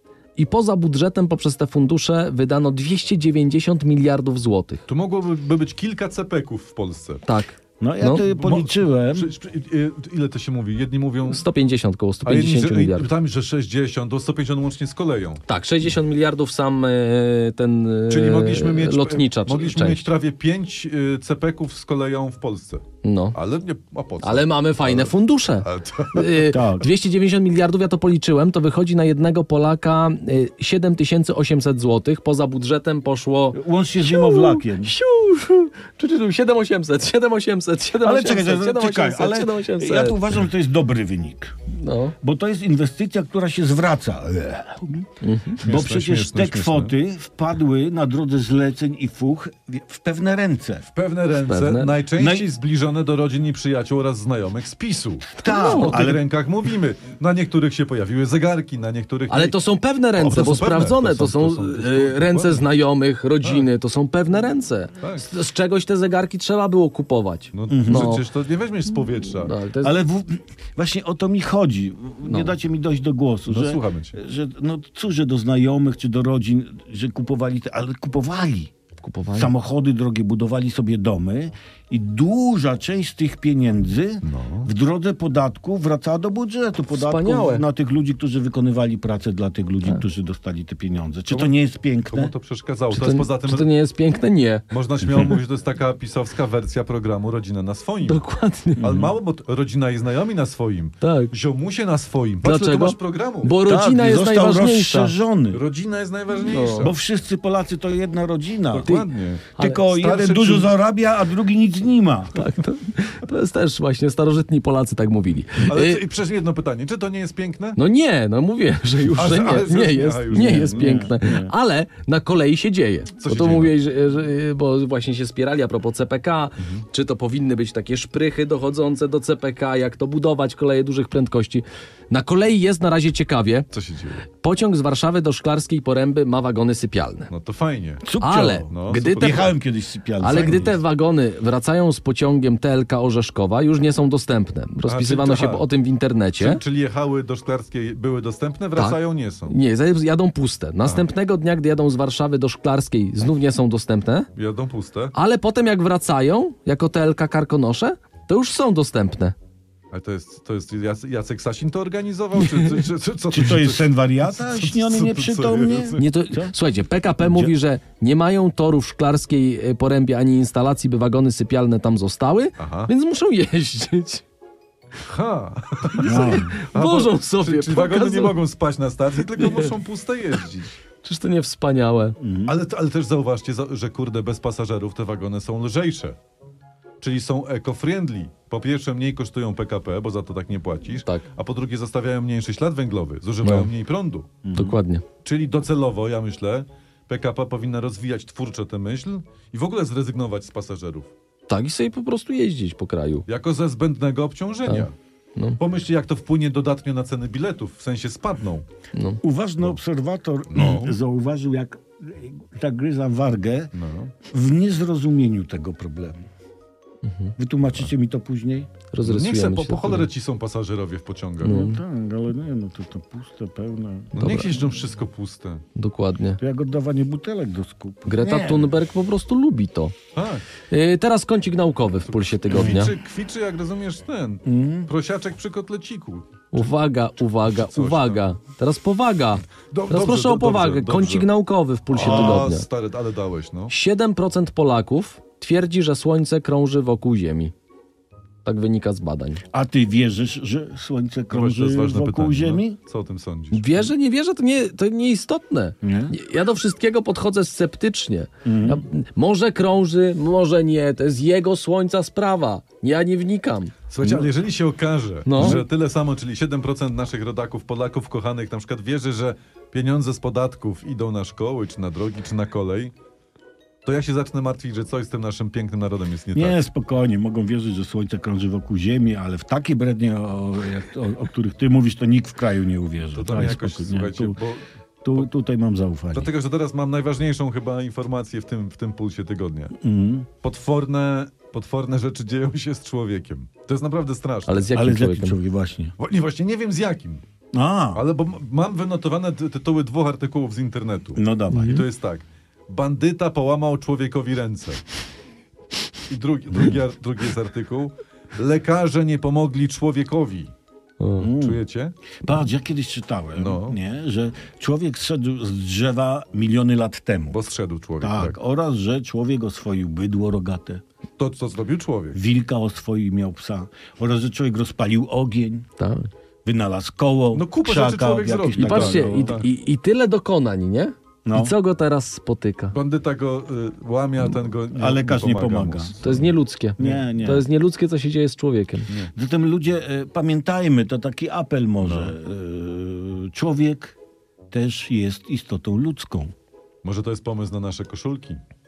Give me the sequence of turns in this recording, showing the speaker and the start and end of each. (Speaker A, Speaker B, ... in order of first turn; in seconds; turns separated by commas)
Speaker A: 0.3-4.8, Speaker B: 4.9-7.2, Speaker A: 7.2-8.2, Speaker C: 7.8-9.3, Speaker B: 8.2-11.4, Speaker A: 11.3-13.1, Speaker B: 12.2-15.4, Speaker A: 15.5-20.1, Speaker B: 18.1-26.5, Speaker A: 23.0-23.4, Speaker A: 24.2-40.2, Speaker C: 26.5-26.9, Speaker C: 33.5-34.9, Speaker C: 38.0-41.6, Speaker A: 41.8-42.1, Speaker C: 42.2-45.1, Speaker A: 45.2-45.6, Speaker C: 45.6-50.9, Speaker B: 45.6-46.9, Speaker B: 50.9-59.6, Speaker A: 51.5-51.9, Speaker C: 52.1-52.5, Speaker C: 55.4-56.2, Speaker A: 55.4-56.0, Speaker A: 59.3-68.2, Speaker B: 60.1-62.7, Speaker B: 65.0-65.3, Speaker B: 67.5-69.6, Speaker C: 67.7-68.2, Speaker A: 69.4-70.0, Speaker C: 69.8-78.7, Speaker A: 72.2-72.5, Speaker B: 73.5-74.2, Speaker A: 79.0-79.5, Speaker C: 79.3-92.3, Speaker B: 84.2-84.7, Speaker A: 86.9-87.6, Speaker B: 92.0-93.7, Speaker A: 92.9-94.6, Speaker B: 94.7-98.2, Speaker A: 98.0-99.0, Speaker B: 98.8-103.6, Speaker C: 98.8-99.1, Speaker A: 101.0-101.3, Speaker A: 102.4-105.1, Speaker C: 103.6-105.6, Speaker B: 105.5-107.0, Speaker A: 106.4-106.9, Speaker C: 106.8-109.0, Speaker B: 108.7-110.7, Speaker C: 109.6-112.5, Speaker A: 112.3-116.0, Speaker B: 115.6-117.8, Speaker A: 117.8-133.7, Speaker B: 119.0-121.0, Speaker C: 120.3-121.5, Speaker B: 123.2-123.7, Speaker B: 133.7-134.2, Speaker A: 134.4-137.3, Speaker B: 137.3-138.1, Speaker C: 138.0-140.8, Speaker A: 138.2-139.5, Speaker B: 138.7-139.5, Speaker A: 140.2-146.6, Speaker B: 140.3-140.7, Speaker B: 144.8-145.7, Speaker B: 146.4-149.6, Speaker A: 148.8-154.3, Speaker B: 154.3-155.1, Speaker A: 155.1-159.3, Speaker B: 159.9-166.1, Speaker C: 163.3-166.5, Speaker A: 166.0-174.2, Speaker C: 167.2-167.5, Speaker B: 172.6-172.9, Speaker B: 175.0-180.8, Speaker A: 175.9-178.4, Speaker C: 176.0-176.5, Speaker A: 179.4-179.7, Speaker A: 181.0-182.2, Speaker C: 182.2-182.6, Speaker B: 182.4-186.2, Speaker B: 187.0-194.3, Speaker A: 193.4-193.7, Speaker C: 194.4-194.8, Speaker A: 194.5-195.0, Speaker B: 195.2-201.1, Speaker A: 201.5-203.2, Speaker B: 203.3-204.9, Speaker A: 204.7-205.6, Speaker B: 205.6-208.6, Speaker A: 208.9-209.2, Speaker C: 209.2-213.7, Speaker B: 210.5-211.0, Speaker B: 213.7-214.1, Speaker C: 214.2-216.2, Speaker A: 217.0-217.3, Speaker C: 217.4-218.7, Speaker A: 218.9-220.1, Speaker B: 219.0-221.6, Speaker A: 221.4-221.8, Speaker C: 221.4-224.1, Speaker B: 224.1-225.6, Speaker A: 224.2-224.6, Speaker A: 225.7-226.4, Speaker C: 226.4-228.8, Speaker A: 228.1-229.9, Speaker B: 230.1-230.4, Speaker A: 230.7-232.9, Speaker B: 232.1-236.7, Speaker C: 232.5-232.8, Speaker C: 234.4-234.9, Speaker A: 236.5-242.7, Speaker B: 237.4-238.2, Speaker B: 239.7-241.3, Speaker B: 241.9-243.7, Speaker C: 241.9-242.5, Speaker A: 243.7-247.5, Speaker A: 248.4-249.4, Speaker C: 249.5-252.8, Speaker B: 251.3-253.9, Speaker A: 253.5-264.2, Speaker C: 255.8-256.1, Speaker C: 258.4-258.8, Speaker B: 263.9-272.9, Speaker A: 265.2-265.6, Speaker C: 265.4-265.6, Speaker B: 273.8-276.6, Speaker C: 276.3-284.4, Speaker B: 283.1-285.3, Speaker C: 285.0-286.3, Speaker B: 286.1-289.7, Speaker C: 289.8-290.3, Speaker B: 290.4-294.7, Speaker A: 294.5-295.4, Speaker C: 294.7-295.9, Speaker B: 296.0-297.2, Speaker C: 297.5-298.0, Speaker B: 297.9-304.8, Speaker C: 301.1-301.8, Speaker A: 301.5-301.8, Speaker B: 306.1-310.5, Speaker A: 311.0-311.3, Speaker C: 311.2-311.6, Speaker B: 311.2-311.9, Speaker C: 312.2-317.4, Speaker B: 313.4-313.8, Speaker B: 317.3-318.4, Speaker C: 318.0-320.8, Speaker B: 321.2-322.2, Speaker C: 322.1-325.7, Speaker A: 325.8-326.1, Speaker C: 326.4-329.4, Speaker B: 327.3-329.5, Speaker A: 328.6-332.7, Speaker C: 331.2-331.5, Speaker B: 332.7-336.2, Speaker C: 334.7-336.2, Speaker A: 336.0-338.9, Speaker C: 336.8-337.4, Speaker C: 339.1-343.9, Speaker B: 341.8-342.1, Speaker C: 344.5-346.3, Speaker B: 346.8-348.4